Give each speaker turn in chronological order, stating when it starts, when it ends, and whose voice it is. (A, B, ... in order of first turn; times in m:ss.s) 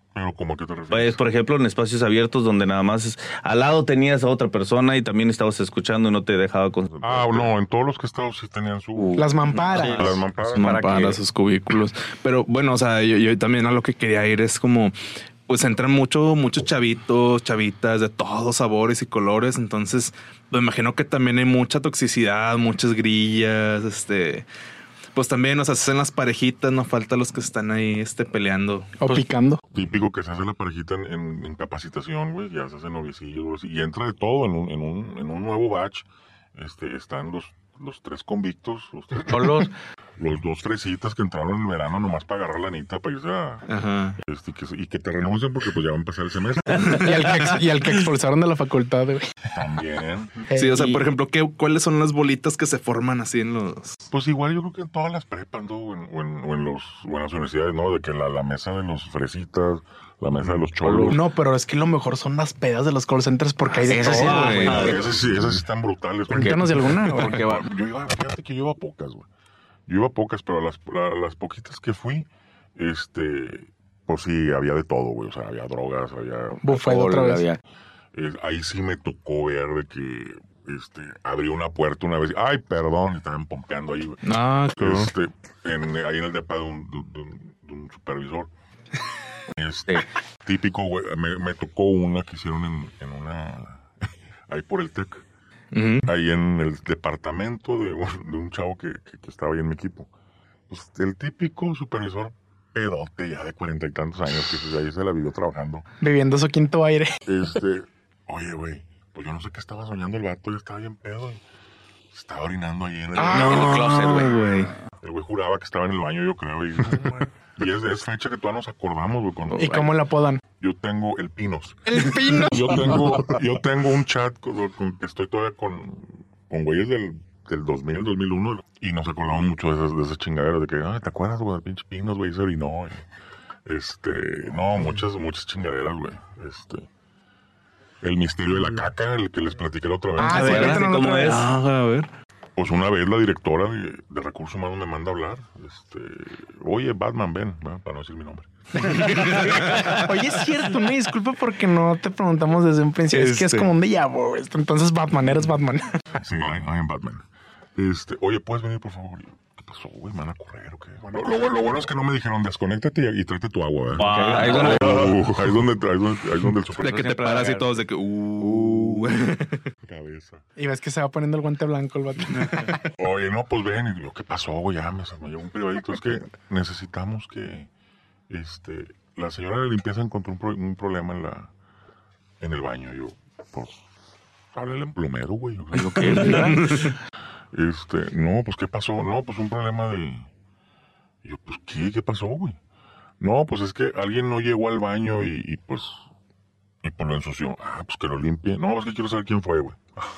0:00.2-0:01.2 A
0:00.9-0:07.5 B
0:07.0-0:09.2 A
0:09.0-0:11.2 C
0:09.2-0:10.2 D
0:09.8-0:10.9 A
0:10.5-0:15.0 E
0:15.5-0:24.5 E
0:25.1-0:28.9 E
0:29.0-0:29.6 D
0:29.7-0:47.1 A
0:39.3-0:39.7 C
0:43.7-0:44.2 E
0:46.8-0:49.3 D
0:49.5-0:50.4 A
0:50.5-0:51.0 D
0:50.5-0:54.0 E
0:54.1-1:01.2 A
1:00.8-1:01.2 C
1:01.1-1:05.0 D
1:03.8-1:05.1 C
1:04.0-1:05.0 E
1:04.0-1:05.1 B
1:04.7-1:09.3 A
1:06.3-1:07.5 D
1:06.3-1:07.7 C
1:09.9-1:16.6 A
1:16.6-1:17.5 D
1:16.7-1:17.6 C
1:18.1-1:28.5 A
1:24.2-1:25.1 E
1:29.5-1:33.9 A
1:34.5-1:35.2 A
1:35.7-1:36.1 E
1:36.0-1:40.1 A
1:40.7-1:45.8 A
1:46.0-1:47.2 D
1:47.3-1:51.4 A
1:52.1-1:54.1 A
1:53.2-1:53.8 D
1:53.2-1:54.7 E
1:53.3-1:54.4 C
1:55.0-1:59.9 A
1:59.5-1:59.9 C
1:59.5-2:00.4 D
2:00.6-2:13.0 A
2:01.9-2:03.1 D
2:13.7-2:16.9 A
2:18.0-2:20.8 A
2:20.2-2:21.5 D
2:20.2-2:21.5 B
2:20.3-2:22.1 E
2:22.6-2:29.6 A
2:28.8-2:36.0 D
2:28.8-2:30.0 E
2:33.1-2:33.7 E
2:36.2-2:37.2 A
2:37.8-2:47.2 A
2:44.0-2:45.1 B
2:44.0-2:45.3 C
2:44.3-2:44.9 E
2:46.8-2:49.6 E
2:46.8-2:47.8 C
2:48.4-2:49.2 C
2:49.8-2:50.4 A
2:50.6-2:52.9 D
2:52.8-2:57.7 A
2:58.3-3:01.5 A
3:02.4-3:03.8 A
3:04.5-3:06.7 A
3:05.7-3:06.8 C
3:06.0-3:07.0 E
3:07.5-3:10.3 A
3:11.2-3:12.6 A
3:13.2-3:16.1 A
3:16.8-3:20.0 A